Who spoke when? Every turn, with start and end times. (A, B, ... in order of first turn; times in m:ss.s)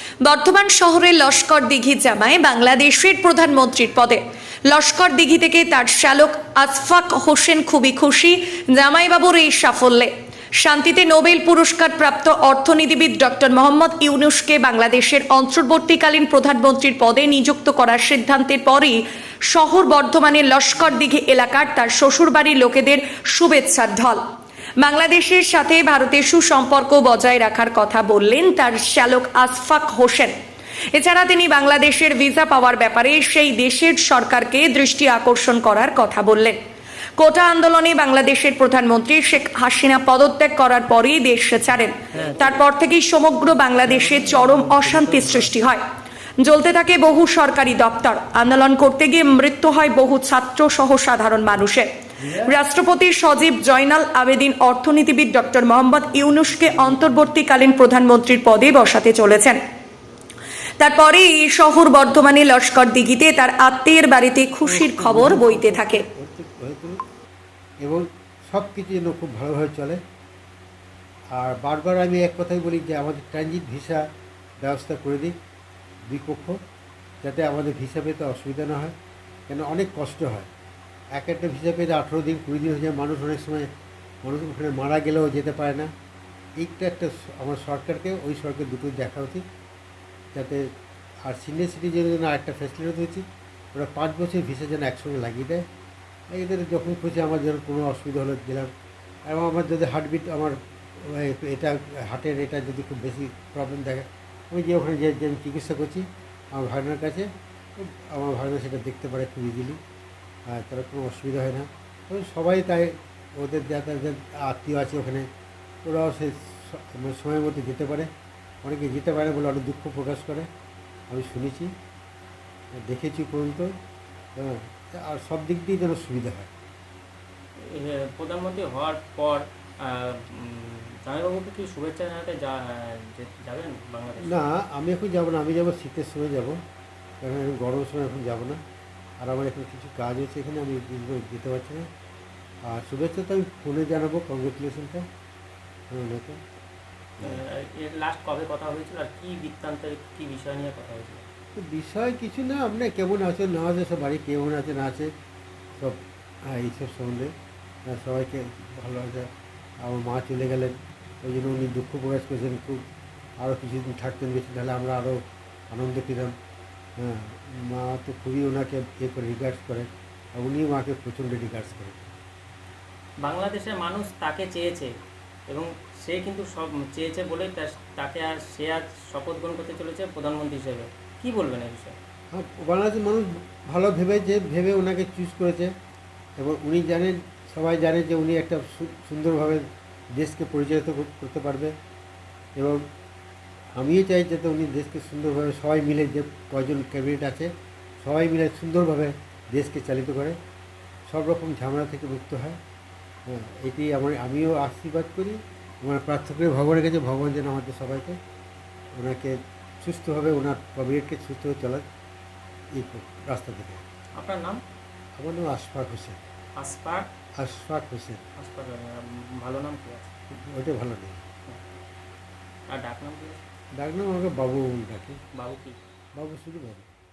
0:00.2-0:24.2 A
0:24.8-0:30.3 A
0:30.9-0:36.6 A
0:37.2-0:45.8 A
0:42.1-0:42.5 B
0:42.1-0:42.4 C
0:43.8-0:45.5 C
0:46.4-0:51.9 A
0:52.2-0:52.5 C
0:52.4-0:59.6 A
0:56.5-0:57.2 C
1:00.8-1:06.0 A
1:04.6-1:07.0 C
1:07.8-1:10.0 C
1:11.3-1:14.1 C
1:14.6-1:15.4 C
1:16.1-1:16.6 C
1:17.2-1:18.9 C
1:19.5-1:20.5 C
1:21.1-1:23.7 C
1:24.2-1:25.9 C
1:26.6-1:29.4 C
1:30.3-1:30.7 C
1:31.2-1:35.6 C
1:36.3-1:38.7 C
1:39.3-1:49.8 C
1:50.5-1:55.3 C
1:55.8-1:58.1 C
1:58.6-2:00.5 C
2:01.1-2:01.7 C
2:02.8-2:03.7 C
2:04.4-2:06.5 C
2:07.6-2:14.4 B
2:14.2-2:16.6 C
2:17.2-2:18.6 C
2:19.2-2:21.9 C
2:22.6-2:25.0 C
2:25.9-2:26.4 C
2:27.2-2:31.2 B
2:31.6-2:35.1 C
2:35.8-2:37.3 C
2:37.9-2:39.3 C
2:39.8-2:42.8 C
2:43.4-2:46.3 C
2:47.0-2:52.1 C
2:53.2-2:54.9 B
2:55.5-3:01.9 B
3:02.3-3:05.7 C
3:06.4-3:11.7 C
3:12.6-3:12.8 C
3:13.8-3:20.4 C
3:21.1-3:22.6 C
3:23.3-3:28.2 C
3:28.9-3:31.8 C
3:32.7-3:33.8 C
3:34.1-3:34.6 B
3:35.2-3:36.2 C
3:36.6-3:37.1 B
3:37.4-3:38.2 C
3:38.4-3:40.1 B
3:40.4-3:41.2 C
3:42.7-3:43.4 B
3:43.8-3:45.2 C
3:45.3-3:45.8 B
3:46.2-3:46.9 C